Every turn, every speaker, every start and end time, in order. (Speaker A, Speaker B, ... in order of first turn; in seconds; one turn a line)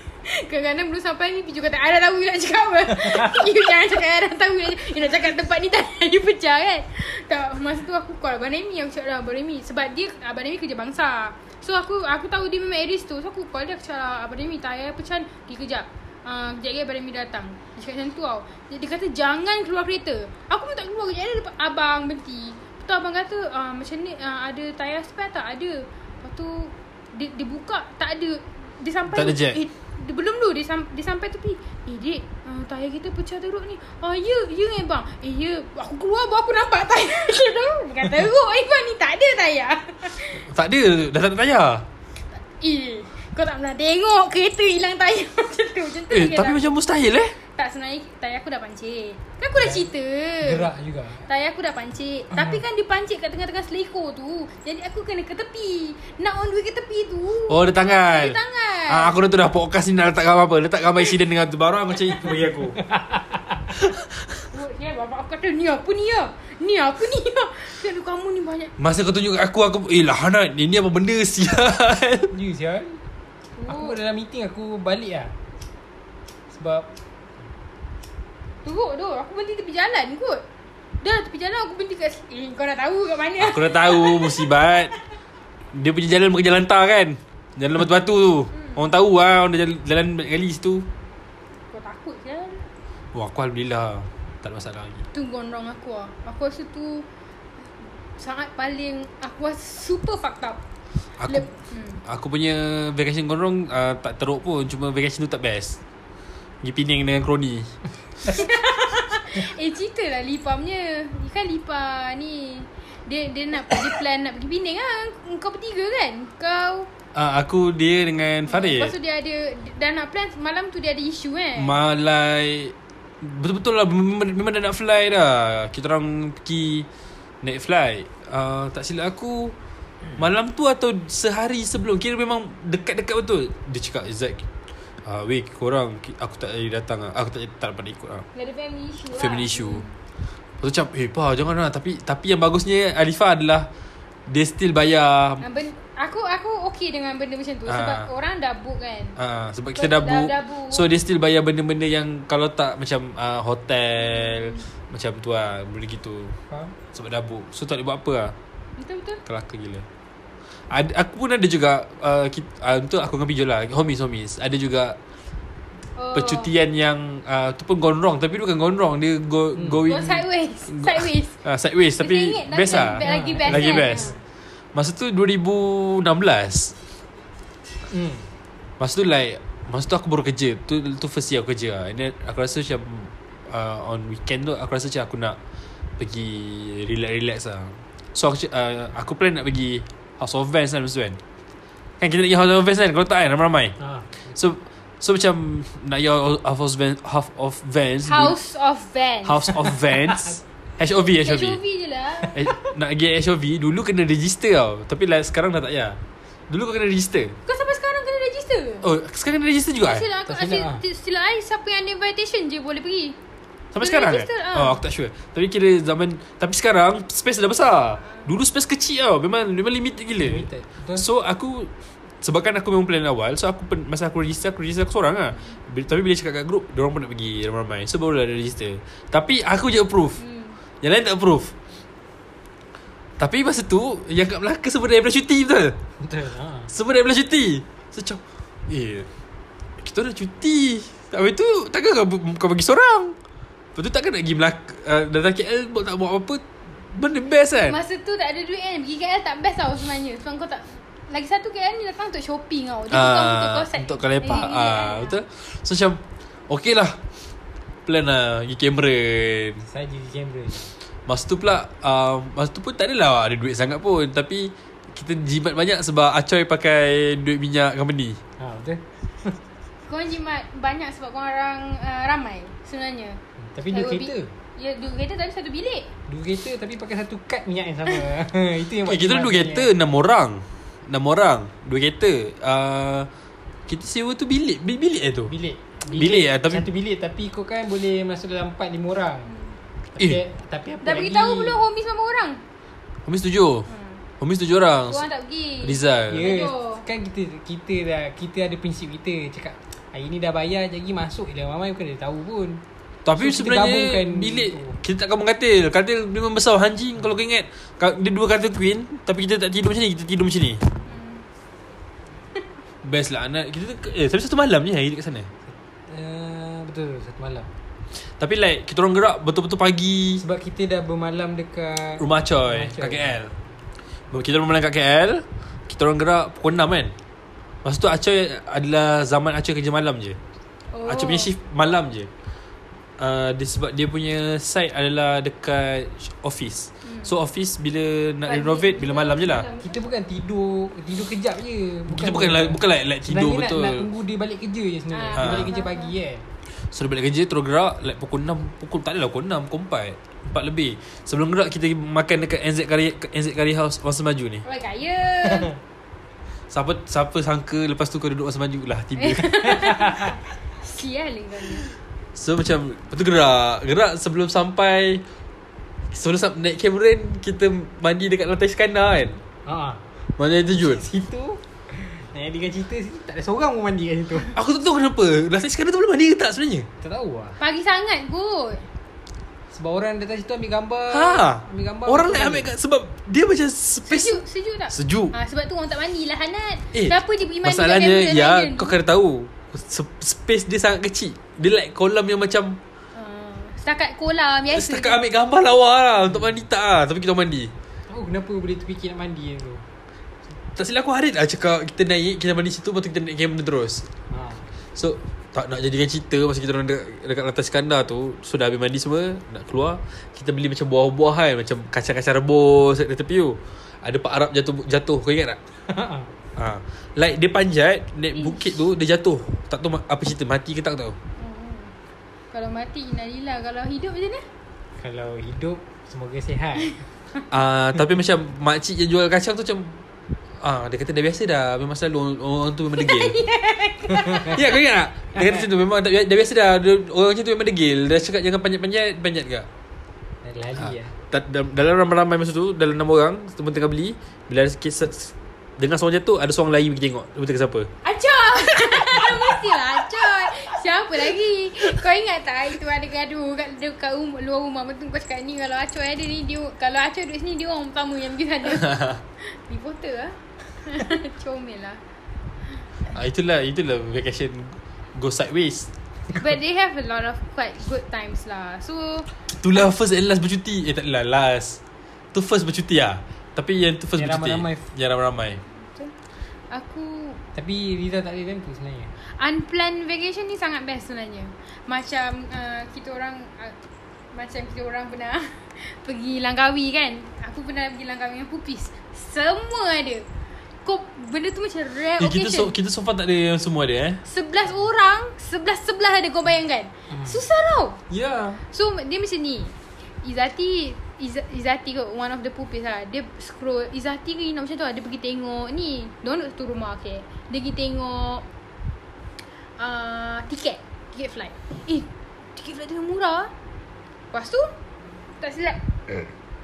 Speaker A: 0.3-40.4
Speaker B: 29.1-29.6
Speaker B: 40.3-41.9
Speaker A: 42.4-46.8
Speaker B: 46.1-47.4
Speaker A: 47.5-50.7
Speaker C: 49.5-49.9
Speaker C: 50.4-51.3
Speaker A: 51.2-59.1
Speaker C: 52.3-52.6
Speaker B: 57.5-62.8
Speaker C: 62.8-63.7
Speaker A: 64.5-68.7
Speaker B: 68.8-72.3
Speaker C: 72.3-73.0
Speaker A: 73.5-74.0
Speaker C: 73.7-75.3
Speaker C: 76.5-76.9
Speaker A: 78.6-80.4
Speaker A: 81.0-84.5
Speaker B: 83.4-84.9
Speaker B: 85.7-90.9
Speaker A: 88.5-88.8
Speaker A: 91.7-92.7
Speaker B: 93.1-95.0
Speaker A: 95.1-97.0
Speaker A: 97.8-100.6
Speaker B: 101.2-101.5
Speaker A: 101.2-102.0
Speaker B: 102.0-105.8
Speaker B: 106.6-107.7
Speaker A: 108.3-116.9
Speaker B: 117.1-118.9
Speaker A: 118.5-121.7
Speaker B: 121.6-126.9
Speaker B: 127.4-129.5
Speaker B: 130.2-134.4
Speaker B: 135.0-138.3
Speaker A: 138.3-139.9
Speaker B: 139.1-139.8
Speaker B: 140.6-143.7
Speaker B: 144.3-145.4
Speaker A: 145.4-149.2
Speaker B: 147.7-148.1
Speaker B: 149.2-156.4
Speaker A: 149.7-150.8
Speaker A: 154.0-154.6
Speaker C: 156.5-156.7
Speaker B: 156.9-158.3
Speaker A: 158.8-159.2
Speaker B: 159.2-159.8
Speaker B: 160.7-165.0
Speaker A: 165.9-166.5
Speaker B: 166.1-174.1
Speaker C: 169.5-169.8
Speaker A: 169.9-171.3
Speaker A: 172.0-174.2
Speaker C: 173.0-174.1
Speaker B: 174.7-176.7
Speaker C: 177.9-178.3
Speaker B: 178.8-185.4
Speaker B: 186.0-191.2
Speaker B: 192.0-193.7
Speaker C: 193.8-194.3
Speaker B: 194.3-198.3
Speaker A: 198.0-199.7
Speaker B: 199.2-201.6
Speaker A: 201.2-202.4
Speaker B: 202.3-207.4
Speaker A: 207.4-208.9
Speaker B: 208.8-210.1
Speaker A: 209.8-213.2
Speaker C: 210.3-210.8
Speaker B: 213.7-221.7
Speaker A: 213.8-214.8
Speaker C: 220.2-221.1
Speaker B: 222.2-230.2
Speaker A: 230.2-230.6
Speaker B: 230.8-231.5
Speaker B: 233.2-235.8
Speaker C: 236.0-236.7
Speaker B: 236.7-239.1
Speaker B: 239.8-243.2
Speaker B: 243.7-247.8
Speaker A: 247.6-255.2
Speaker B: 252.9-257.0
Speaker B: 257.9-259.6
Speaker C: 259.6-260.7
Speaker B: 261.1-268.2
Speaker C: 268.4-269.4
Speaker A: 269.8-273.2
Speaker C: 273.4-274.3
Speaker A: 273.7-275.9
Speaker C: 276.1-279.7
Speaker B: 278.9-283.1
Speaker B: 283.7-285.3
Speaker C: 285.3-289.3
Speaker B: 285.9-286.7
Speaker A: 289.2-289.6
Speaker C: 290.0-291.6
Speaker A: 290.8-292.4
Speaker B: 293.0-293.7
Speaker A: 293.7-294.0
Speaker B: 294.2-295.1
Speaker A: 294.9-296.9
Speaker B: 295.6-296.3
Speaker C: 296.1-302.6
Speaker B: 303.0-310.6
Speaker C: 303.2-304.8
Speaker A: 310.9-311.2
Speaker B: 312.8-315.3
Speaker C: 315.9-317.5
Speaker B: 318.2-320.2
Speaker C: 320.2-323.1
Speaker B: 322.0-323.3
Speaker B: 324.1-326.9
Speaker B: 327.6-330.2
Speaker A: 330.7-331.3
Speaker B: 330.9-332.1
Speaker B: 333.0-339.4
Speaker A: 336.8-337.1
Speaker A: 338.2-339.8
Speaker C: 339.6-346.2
Speaker B: 341.9-343.9
Speaker A: 344.9-345.9
Speaker B: 345.2-345.5
Speaker B: 346.6-354.4
Speaker A: 354.4-355.5
Speaker B: 356.5-359.6
Speaker A: 358.9-361.7
Speaker B: 362.1-365.0
Speaker B: 365.9-369.2
Speaker C: 369.4-369.8
Speaker B: 370.2-370.8
Speaker C: 370.6-374.3
Speaker B: 374.3-376.7
Speaker C: 376.8-377.4
Speaker A: 377.4-378.7
Speaker C: 379.5-382.5
Speaker B: 380.9-385.1
Speaker A: 383.9-388.7
Speaker B: 386.7-392.6
Speaker A: 392.9-395.0
Speaker B: 394.5-397.5
Speaker C: 397.9-399.7
Speaker B: 400.5-403.9
Speaker C: 404.1-404.5
Speaker B: 404.7-415.4
Speaker C: 415.7-416.1
Speaker B: 416.4-421.0
Speaker A: 418.1-418.6
Speaker A: 421.1-421.7
Speaker A: 422.3-424.2
Speaker C: 424.8-426.8
Speaker B: 427.3-429.8
Speaker B: 430.4-433.2
Speaker A: 432.7-434.5
Speaker B: 434.2-439.5
Speaker C: 435.1-435.4
Speaker C: 440.2-440.9
Speaker B: 441.1-447.7
Speaker A: 447.8-461.8
Speaker B: 458.6-459.0
Speaker B: 462.9-465.7
Speaker A: 466.1-469.1
Speaker B: 469.3-471.6
Speaker B: 472.1-475.4
Speaker C: 473.9-474.7
Speaker A: 475.5-475.9
Speaker A: 476.5-477.2
Speaker C: 477.3-478.9
Speaker A: 479.2-483.6
Speaker A: 484.1-490.1
Speaker A: 490.6-492.5
Speaker B: 492.0-494.0
Speaker A: 494.0-497.8
Speaker B: 497.9-498.4
Speaker A: 498.5-508.2
Speaker A: 509.6-513.3
Speaker A: 514.1-514.5
Speaker A: 515.2-516.1